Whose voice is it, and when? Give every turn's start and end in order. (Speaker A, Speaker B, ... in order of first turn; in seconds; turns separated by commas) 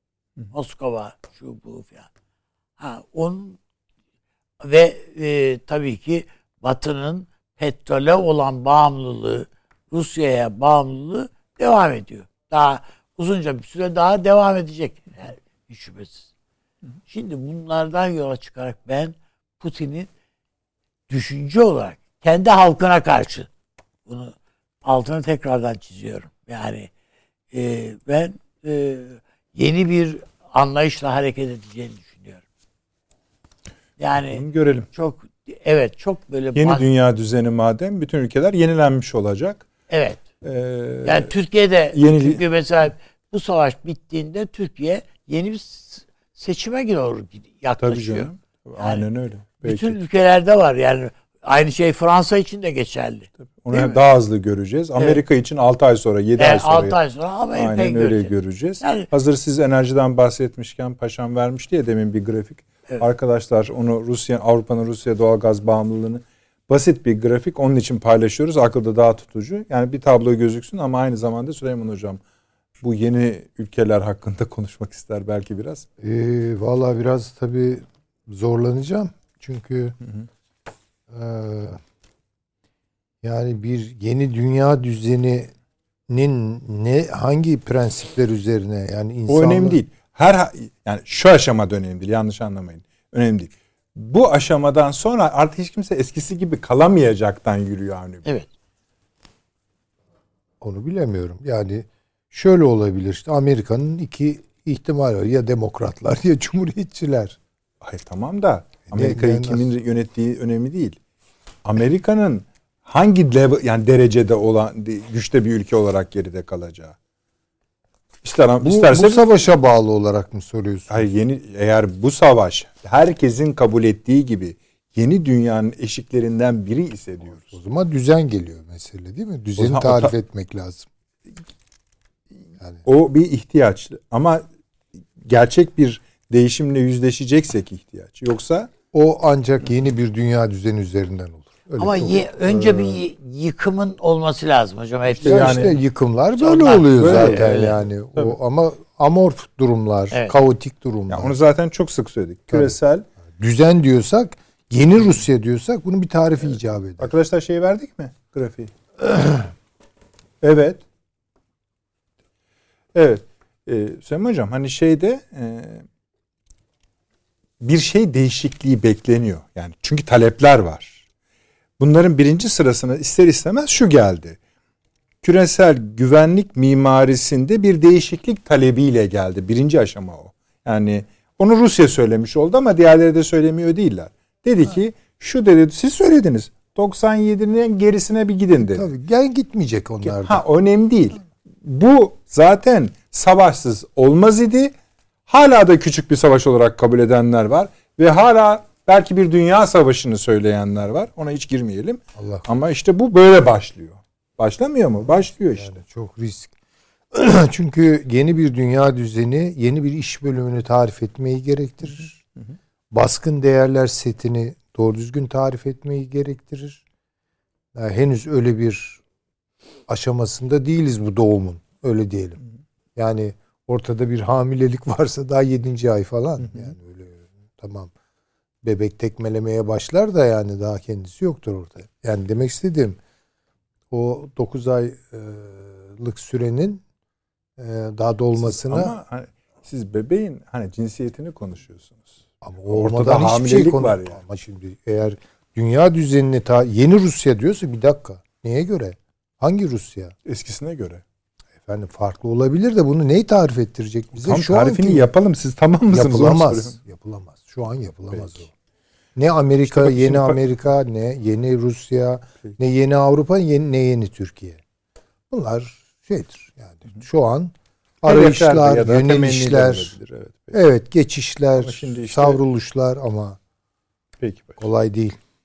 Speaker A: 0.5-2.1, Speaker A: 2.8-3.6, Speaker A: 4.6-16.3, Speaker A: 17.1-20.1, Speaker A: 21.1-23.5, Speaker A: 24.1-26.9, Speaker A: 27.5-32.4, Speaker A: 34.0-36.8, Speaker B: 34.3-34.9, Speaker B: 36.5-39.7, Speaker A: 39.9-40.2, Speaker B: 40.4-41.3, Speaker A: 41.0-49.1, Speaker B: 41.9-42.4, Speaker B: 47.8-50.0, Speaker A: 49.6-54.0, Speaker B: 53.6-57.0, Speaker A: 56.4-59.1, Speaker B: 57.5-72.2, Speaker B: 72.8-75.9, Speaker C: 76.0-80.0, Speaker C: 81.1-81.8, Speaker C: 83.2-85.5, Speaker C: 86.1-89.8, Speaker B: 89.3-98.3, Speaker C: 100.6-107.4, Speaker B: 107.8-111.0, Speaker C: 108.9-109.7, Speaker B: 111.6-117.0, Speaker B: 118.2-119.3, Speaker C: 118.6-121.1, Speaker B: 120.9-127.4, Speaker C: 127.4-130.9, Speaker B: 129.6-130.2, Speaker B: 132.8-134.4, Speaker B: 135.2-138.7, Speaker C: 138.9-143.0, Speaker A: 141.8-145.7, Speaker B: 145.2-145.8, Speaker C: 145.2-151.3, Speaker A: 146.4-147.8, Speaker B: 146.8-148.4, Speaker B: 151.1-153.1, Speaker C: 152.5-152.8, Speaker C: 153.4-157.1, Speaker B: 157.0-158.7, Speaker B: 160.4-160.8, Speaker B: 162.9-165.8, Speaker B: 167.6-171.0, Speaker B: 171.8-174.4, Speaker B: 175.2-188.9, Speaker C: 188.6-190.4, Speaker B: 190.0-194.7, Speaker B: 195.3-205.8, Speaker C: 202.2-202.5, Speaker C: 205.6-206.5, Speaker C: 207.1-212.2, Speaker C: 212.9-216.8, Speaker C: 217.8-219.0, Speaker C: 219.9-222.4, Speaker C: 223.0-227.9, Speaker C: 228.6-233.0, Speaker C: 233.9-236.8, Speaker C: 237.6-239.0, Speaker B: 238.4-242.1, Speaker C: 242.4-250.1, Speaker B: 242.7-244.2, Speaker B: 250.3-251.0, Speaker C: 251.6-255.1, Speaker B: 254.2-256.8, Speaker C: 255.9-258.5, Speaker B: 258.1-258.4, Speaker C: 259.2-264.6, Speaker B: 259.7-260.4, Speaker C: 265.3-269.9, Speaker B: 268.0-270.6, Speaker C: 270.5-273.4, Speaker B: 271.6-272.4, Speaker B: 274.2-274.6, Speaker C: 274.6-275.2